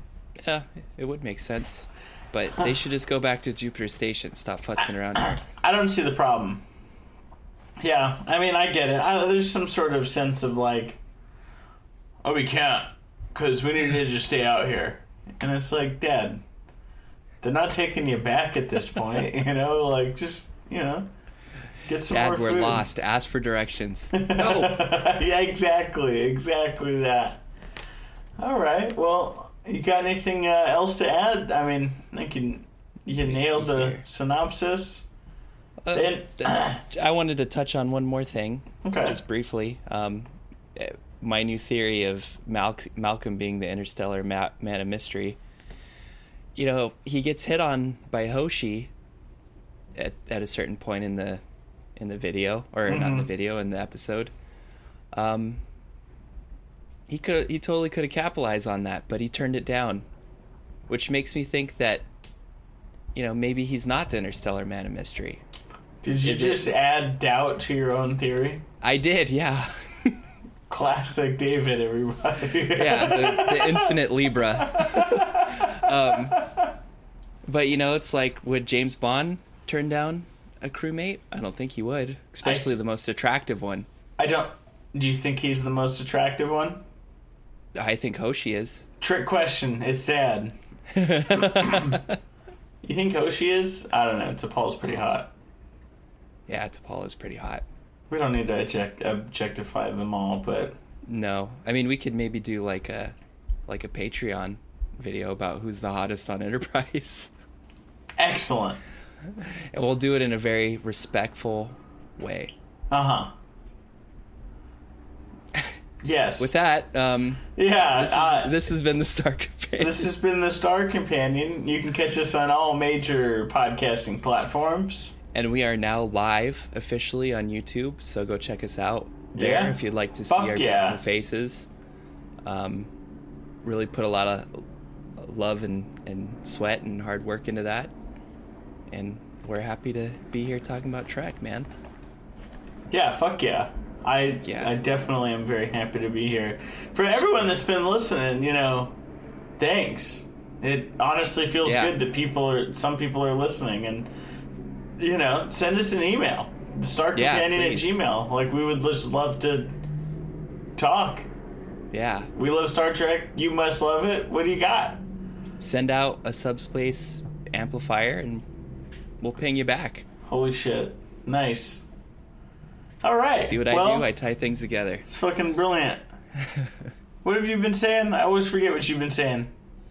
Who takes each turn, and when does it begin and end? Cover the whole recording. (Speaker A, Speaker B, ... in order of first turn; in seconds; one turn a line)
Speaker A: 0.4-5.4
Speaker B: 5.2-6.6
Speaker B: 7.8-11.0
Speaker B: 12.2-16.4
Speaker B: 17.4-21.1
Speaker B: 21.9-22.9
Speaker A: 22.1-24.9
Speaker B: 24.1-27.4
Speaker B: 28.4-35.1
Speaker A: 33.2-34.0
Speaker A: 35.8-45.4
Speaker B: 35.9-36.8
Speaker B: 38.8-39.2
Speaker A: 46.6-48.9
Speaker A: 50.0-51.4
Speaker A: 52.0-54.3
Speaker B: 52.9-53.3
Speaker A: 55.1-55.6
Speaker A: 57.1-60.1
Speaker A: 60.9-62.1
Speaker A: 63.1-65.4
Speaker B: 66.0-68.7
Speaker A: 66.2-66.7
Speaker A: 68.8-70.2
Speaker B: 70.7-74.0
Speaker A: 72.8-76.4
Speaker B: 74.6-76.7
Speaker A: 77.5-83.9
Speaker B: 82.4-82.8
Speaker B: 84.2-86.8
Speaker A: 87.8-88.9
Speaker B: 89.0-90.5
Speaker A: 90.9-92.2
Speaker B: 91.4-92.0
Speaker B: 92.8-95.3
Speaker A: 96.5-97.7
Speaker B: 98.1-100.8
Speaker A: 101.1-103.2
Speaker A: 103.7-107.3
Speaker B: 108.2-108.8
Speaker A: 109.3-112.5
Speaker B: 112.9-113.3
Speaker B: 116.0-116.5
Speaker A: 116.4-120.1
Speaker B: 117.6-118.5
Speaker B: 119.8-125.2
Speaker A: 125.3-131.7
Speaker B: 129.3-131.0
Speaker A: 132.4-132.9
Speaker A: 133.6-134.6
Speaker A: 135.2-137.9
Speaker A: 138.9-141.7
Speaker B: 142.9-148.9
Speaker A: 144.4-144.7
Speaker B: 149.6-154.1
Speaker A: 151.6-151.9
Speaker B: 155.0-159.8
Speaker A: 157.2-158.0
Speaker B: 160.8-161.3
Speaker A: 161.9-162.3
Speaker B: 162.4-165.0
Speaker A: 165.6-168.4
Speaker A: 169.2-170.1
Speaker B: 170.3-171.8
Speaker B: 173.0-174.1
Speaker A: 173.4-175.1
Speaker B: 175.1-176.0
Speaker A: 176.4-176.9
Speaker B: 177.2-179.5